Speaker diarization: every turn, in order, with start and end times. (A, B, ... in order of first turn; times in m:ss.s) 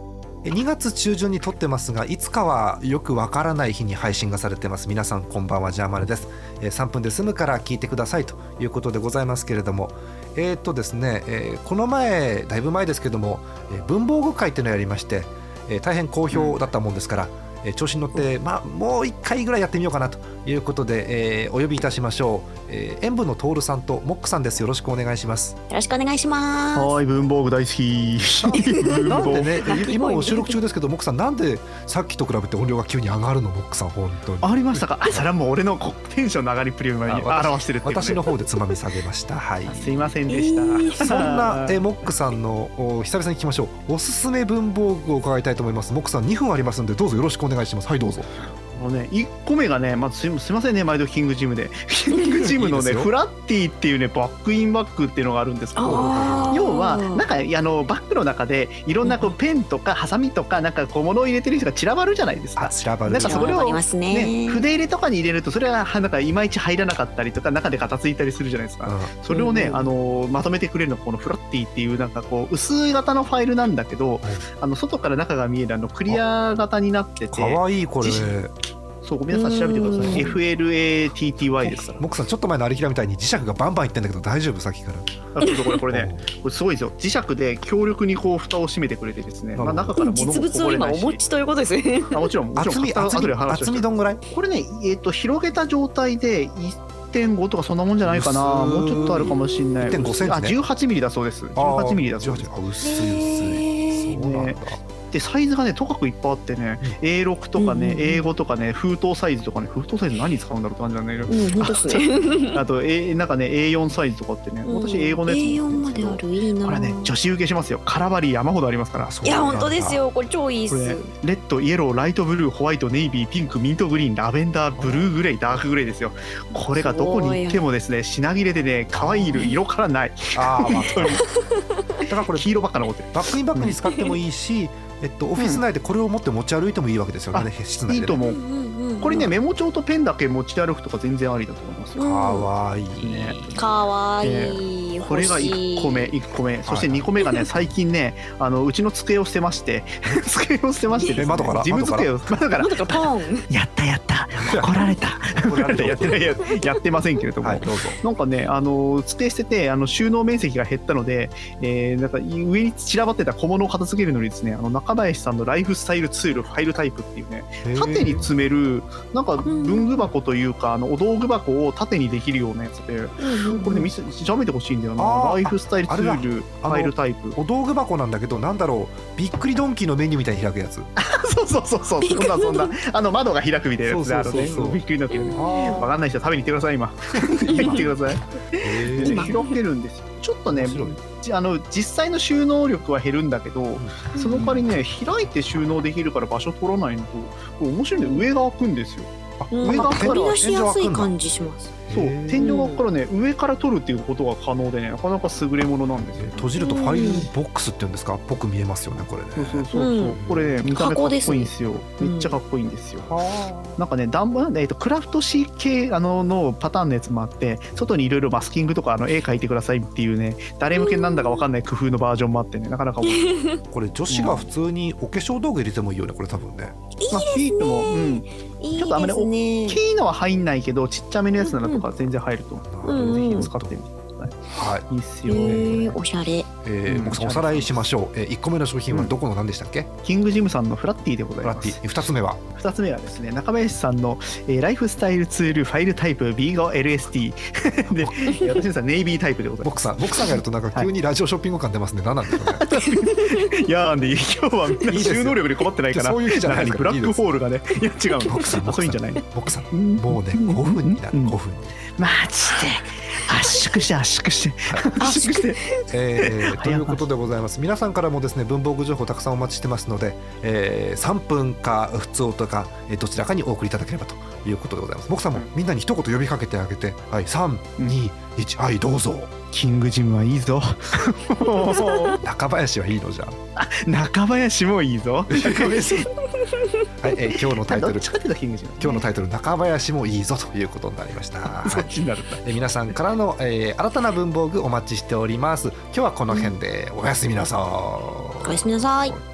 0:00.4-0:25.6 A
0:16.3-0:16.6 B
0:25.7-0:27.0 C
0:26.7-0:29.8 B
0:28.5-0:30.6 C
0:29.1-0:35.2 A
0:34.4-0:38.2 B
0:37.0-0:40.1 A
0:39.7-0:42.0 B
0:40.3-0:41.0 C
0:41.0-0:48.5 A
0:48.7-1:18.4 B
0:52.1-0:52.5 C
0:52.6-0:53.1 A
0:55.8-0:57.2 C
0:55.8-0:56.6 A
0:59.0-0:59.3 C
1:02.6-1:03.6 A
1:03.2-1:04.7 C
1:08.8-1:09.1 A
1:09.3-1:09.9 C
1:17.3-1:18.5 A
1:19.0-1:22.1 B
1:19.3-1:20.4 C
1:21.6-1:25.1 A
1:25.3-1:31.3 B
1:25.9-1:26.2 A
1:29.6-1:30.0 A
1:30.0-1:32.3 C
1:32.1-1:42.5 B
1:32.6-1:34.2 A
1:38.0-1:40.6 A
1:38.9-1:39.8 C
1:41.6-1:44.8 A
1:42.8-1:44.2 C
1:44.1-1:59.1 B
1:47.6-1:48.3 C
1:51.3-1:52.6 C
1:54.7-1:57.1 C
1:59.0-2:00.0 A
1:59.2-2:01.1 C
2:00.7-2:11.2 B
2:04.8-2:05.2 A
2:06.7-2:07.6 C
2:08.9-2:09.5 A
2:10.3-2:11.2 A
2:10.7-2:11.7 C
2:12.1-2:12.5 A
2:12.3-2:13.8 B
2:13.1-2:18.2 A
2:13.8-2:14.2 C
2:15.4-2:15.6 B
2:17.3-2:18.4 B
2:18.2-2:19.3 C
2:19.0-2:22.1 B
2:22.0-2:22.5 C
2:22.0-2:23.7 A
2:22.9-2:23.7 B
2:23.6-2:26.2 C
2:24.2-2:57.4 B
2:26.7-2:27.1 A
2:30.9-2:31.3 C
2:31.1-2:32.2 A
2:32.6-2:33.5 C
2:34.4-2:36.3 A
2:37.4-2:38.0 A
2:47.6-2:48.3 A
2:49.4-2:49.9 C
2:53.2-2:53.9 C
2:55.0-3:00.9 A
3:01.0-3:20.4 B
3:02.0-3:02.7 C
3:03.8-3:04.8 A
3:05.1-3:05.8 C
3:05.3-3:05.9 A
3:07.5-3:07.9 A
3:07.5-3:07.8 C
3:08.6-3:09.3 A
3:09.0-3:09.4 C
3:10.5-3:11.0 A
3:13.8-3:14.5 A
3:14.2-3:14.5 C
3:18.0-3:18.3 C
3:19.4-3:21.1 A
3:19.5-3:21.8 C
3:21.9-3:22.5 A
3:21.9-3:26.5 B
3:22.4-3:22.8 C
3:26.2-3:30.6 A
3:26.6-3:27.3 C
3:29.3-3:33.1 B
3:29.8-3:32.4 C
3:33.0-3:33.8 A
3:33.8-3:43.3 B
3:40.8-3:41.4 C
3:43.0-3:43.6 C
3:43.7-3:46.8 A
3:44.1-3:44.5 B
3:47.0-3:49.8 C
3:47.1-3:48.2 B
3:48.8-3:56.0 B
3:51.4-3:51.8 C
3:52.6-3:53.8 A
3:52.8-3:53.5 C
3:54.5-3:54.9 A
3:55.3-3:56.5 C
3:55.4-3:55.8 A
3:56.6-3:59.9 A
3:56.8-3:57.9 B
3:58.9-3:59.2 B
4:00.0-4:01.8 B
4:01.4-4:02.4 A
4:02.5-4:10.9 B
4:07.9-4:08.2 A
4:09.6-4:12.6 A
4:12.3-4:21.4 B
4:14.9-4:17.2 A
4:18.2-4:21.7 A
4:21.9-4:25.6 B
4:25.0-4:25.8 C
4:25.9-4:39.3 A
4:26.2-4:27.0 B
4:39.5-4:42.2 B
4:42.2-4:43.4 A
4:43.6-4:46.1 B
4:45.3-4:46.1 A
4:47.0-4:48.1 A
4:47.2-4:49.0 B
4:48.8-4:59.2 A
4:51.4-4:52.4 B
4:56.3-4:56.6 C
4:58.4-4:59.2 C